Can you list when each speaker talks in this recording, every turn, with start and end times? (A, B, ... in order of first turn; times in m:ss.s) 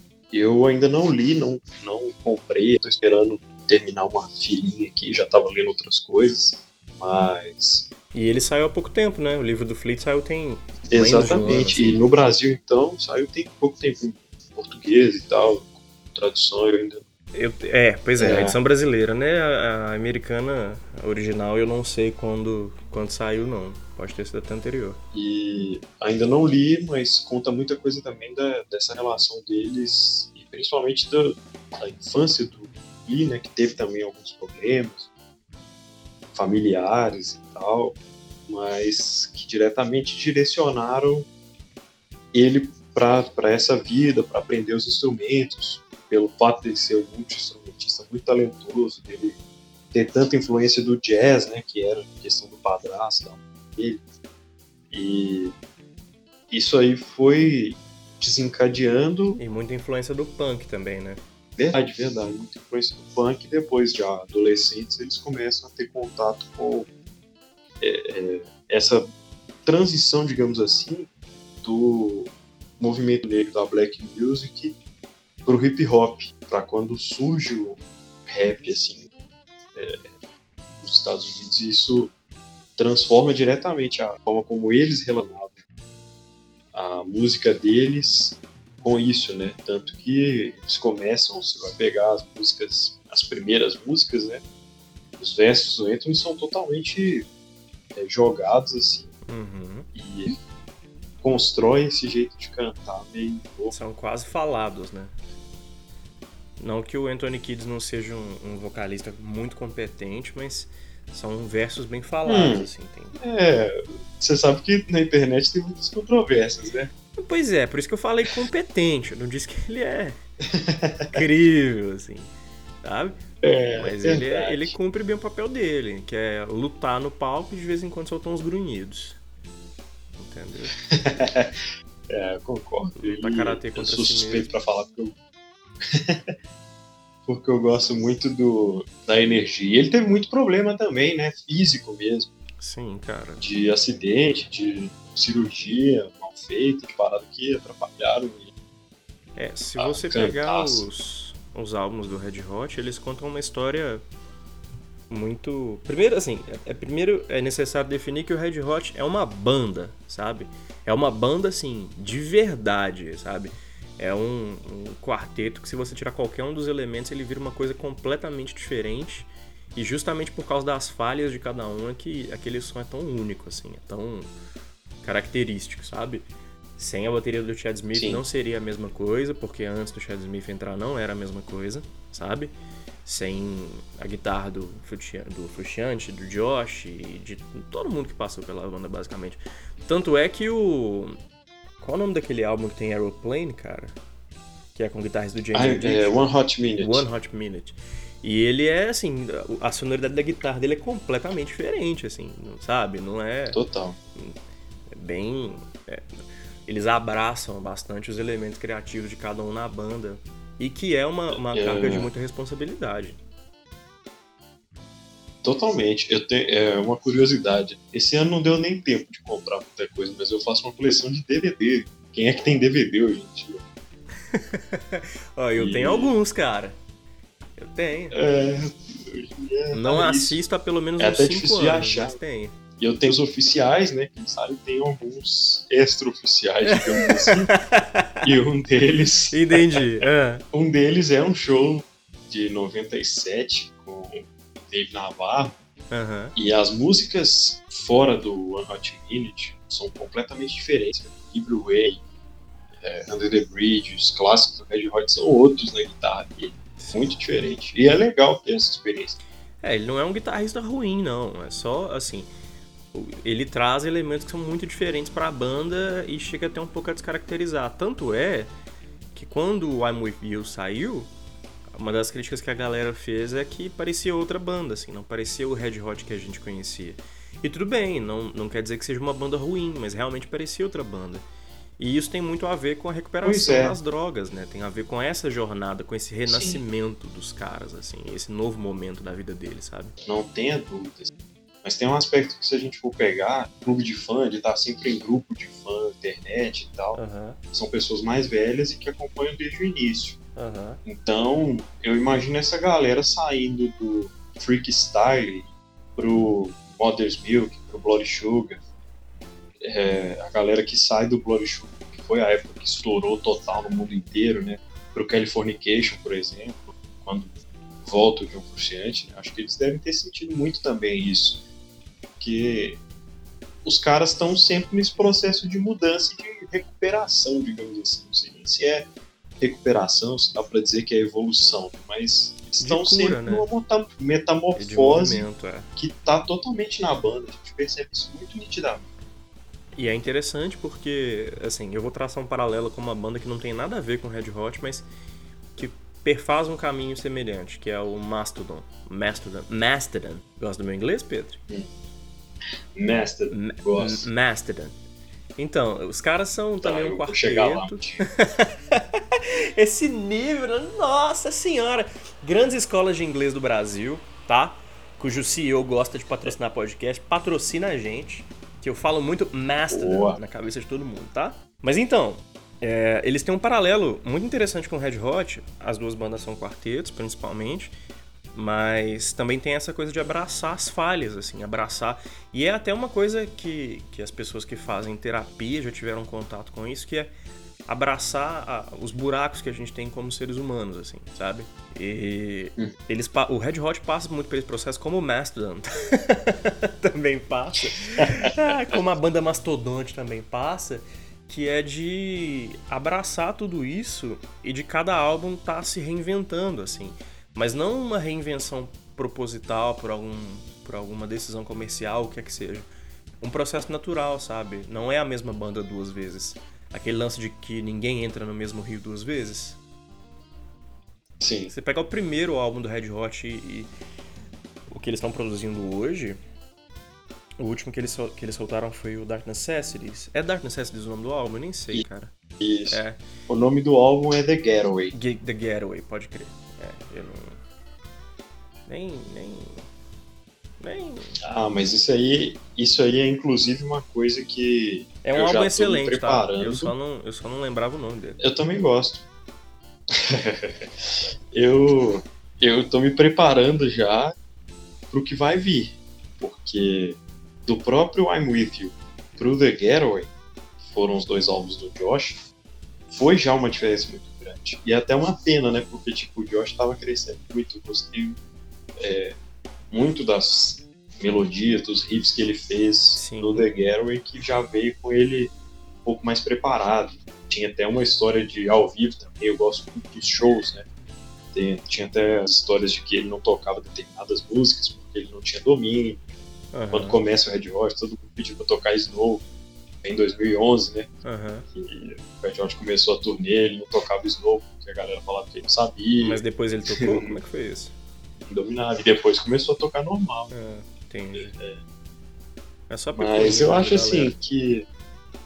0:00.3-0:07.9 A
0:08.1-0:12.0 B
0:10.9-0:17.0 A
0:17.3-0:25.0 B
0:18.2-0:18.6 A
0:25.1-0:35.1 A
0:36.3-0:41.3 A
0:42.3-0:49.4 A
0:49.9-0:54.0 A
0:54.9-0:55.5 A
0:56.5-0:59.4 A
0:59.4-1:01.2 B
1:01.6-1:06.9 A
1:07.8-1:09.0 A
1:09.6-1:11.1 A
1:11.6-1:14.8 A
1:15.4-1:19.0 A
1:19.7-1:20.1 A
1:20.8-1:22.1 A
1:22.8-1:25.6 A
1:26.7-1:34.4 A
1:35.2-1:37.3 A
1:37.9-1:39.1 A
1:39.3-1:39.9 B
1:39.9-1:40.4 A
1:41.2-1:43.7 A
1:43.7-1:45.1 B
1:46.6-1:53.2 B
1:52.2-1:52.7 A
1:53.2-1:56.9 A
1:57.2-2:00.2 B
2:00.5-2:01.2 A
2:01.1-2:02.3 B
2:02.8-2:03.2 B
2:03.4-2:04.7 A
2:03.7-2:09.2 B
2:10.2-2:10.8 B
2:10.9-2:11.5 A
2:12.1-2:15.2 A
2:13.0-2:14.5 B
2:15.9-2:16.3 A
2:17.3-2:22.3 A
2:22.6-2:23.4 B
2:23.4-2:28.5 A
2:29.4-2:34.0 B
2:29.8-2:30.9 A
2:35.1-2:54.3 B
2:55.0-3:02.5 B
2:57.9-2:58.2 A
3:03.0-3:11.2 B
3:11.8-3:14.0 B
3:14.7-3:23.6 B
3:15.5-3:17.0 A
3:23.5-3:24.0 A
3:24.9-3:26.0 B
3:26.7-3:33.2 B
3:31.3-3:32.1 A
3:35.4-3:43.6 A
3:44.3-3:46.8 B
3:45.5-3:46.1 A
3:47.6-3:48.2 B
3:48.1-3:50.4 A
3:49.7-3:52.5 B
3:51.0-3:52.2 A
3:52.8-3:57.5 A
3:56.7-3:58.3 B
3:58.2-3:59.8 A
3:59.3-4:00.4 B
4:00.5-4:05.5 A
4:05.9-4:06.3 B
4:06.4-4:12.0 A
4:12.8-4:19.2 A
4:16.8-4:17.1 B
4:19.6-4:22.3 B
4:22.9-4:28.5 B
4:29.1-4:31.1 B
4:31.7-4:41.2 B
4:41.8-4:49.9 B
4:43.2-4:43.8 A
4:46.2-4:46.6 A
4:50.0-4:51.1 A
4:51.6-5:00.2 A
4:56.9-4:57.4 B
5:00.4-5:00.8 B
5:00.8-5:08.6 A
5:09.6-5:21.4 A
5:22.2-5:22.8 A
5:23.6-5:28.9 A
5:29.4-5:38.9 A
5:32.6-5:33.5 B
5:34.6-5:35.7 B
5:39.8-5:44.8 B
5:45.5-5:51.4 B
5:52.7-5:54.1 A
5:53.3-5:54.7 B
5:55.4-6:17.7 B
5:56.6-5:58.1 A
6:09.7-6:10.2 A
6:18.3-6:27.1 B
6:27.6-6:52.6 B
6:37.7-6:38.5 A
6:53.2-6:59.6 B
7:01.2-7:01.5 A
7:01.5-7:03.7 B
7:04.7-7:06.2 B
7:07.4-7:12.1 B
7:12.4-7:14.9 A
7:12.7-7:13.0 B
7:14.9-7:17.4 B
7:18.7-7:19.6 B
7:20.6-7:21.2 B
7:21.2-7:26.7 A
7:25.0-7:28.2 B
7:28.2-7:29.0 A
7:29.9-7:34.1 A
7:34.9-7:42.2 A
7:42.9-7:48.2 A
7:48.8-7:49.2 A
7:49.7-7:55.3 A
7:53.0-7:53.5 B
7:55.8-8:00.7 A
8:01.3-8:06.0 A
8:06.5-8:07.0 B
8:06.7-8:09.2 A
8:09.8-8:10.9 A
8:11.0-8:11.4 B
8:11.5-8:16.2 A
8:16.0-8:17.7 B
8:16.8-8:17.2 A
8:18.2-8:20.3 A
8:20.3-8:21.4 B
8:21.1-8:21.6 A
8:22.7-8:24.1 B
8:23.0-8:24.7 A